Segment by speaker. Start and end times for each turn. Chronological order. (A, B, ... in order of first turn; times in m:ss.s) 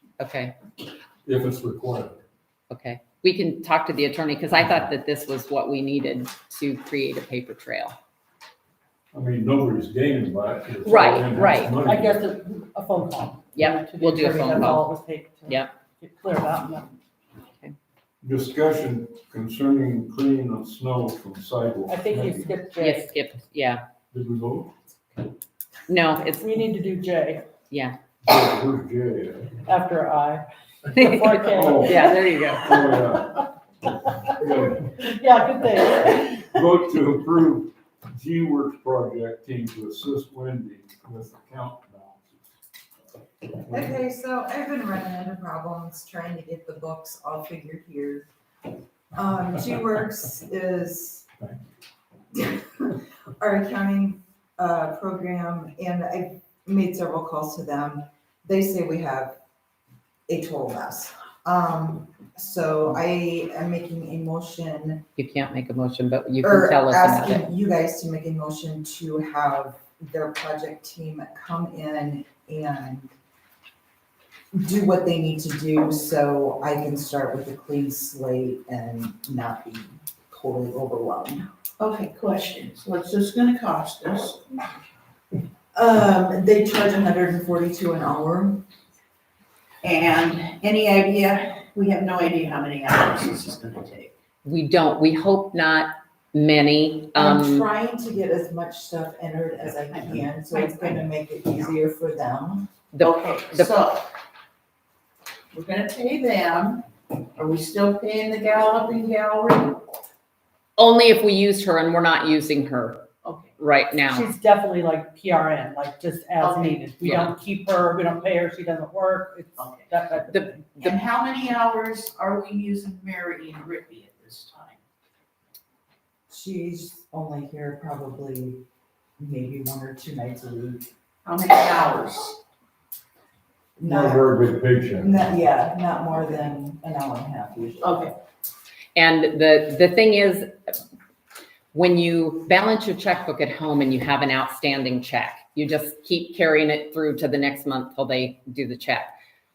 0:00.2-0:00.6 A
0:01.2-0:02.2 B
0:02.7-0:08.0 A
0:09.1-0:12.2 B
0:10.8-0:11.8 A
0:11.8-0:16.9 C
0:13.6-0:14.9 A
0:15.5-0:15.8 A
0:18.2-0:22.6 B
0:21.9-0:23.1 C
0:22.8-0:23.8 A
0:24.1-0:24.8 B
0:25.9-0:26.6 A
0:26.4-0:27.5 C
0:27.7-0:28.0 A
0:28.2-0:29.6 B
0:29.6-0:33.1 C
0:30.9-0:32.8 A
0:31.5-0:33.5 B
0:34.3-0:35.0 B
0:35.0-0:36.5 C
0:36.0-0:42.5 B
0:43.7-0:44.0 B
0:43.7-0:48.3 D
0:49.1-0:51.3 D
0:52.3-0:59.4 D
1:00.3-1:05.1 D
1:05.2-1:07.4 A
1:06.4-1:13.1 D
1:14.5-1:21.5 D
1:21.8-1:24.6 E
1:25.8-1:28.6 D
1:29.8-1:34.1 E
1:34.4-1:37.7 A
1:37.1-1:42.7 D
1:39.8-1:41.0 E
1:42.9-1:43.8 A
1:43.0-1:44.1 E
1:45.5-1:49.8 E
1:50.8-1:53.1 A
1:53.2-1:53.6 E
1:53.6-1:54.3 A
1:54.1-2:00.8 C
1:56.4-1:56.9 E
1:57.0-1:57.4 A
1:59.6-1:59.9 E
2:00.3-2:01.0 A
2:00.8-2:04.8 E
2:06.3-2:08.6 D
2:09.2-2:10.9 D
2:11.2-2:12.4 E
2:13.8-2:14.4 D
2:13.8-2:15.2 B
2:15.0-2:18.0 D
2:17.8-2:18.2 E
2:19.0-2:20.7 A
2:21.7-2:29.1 A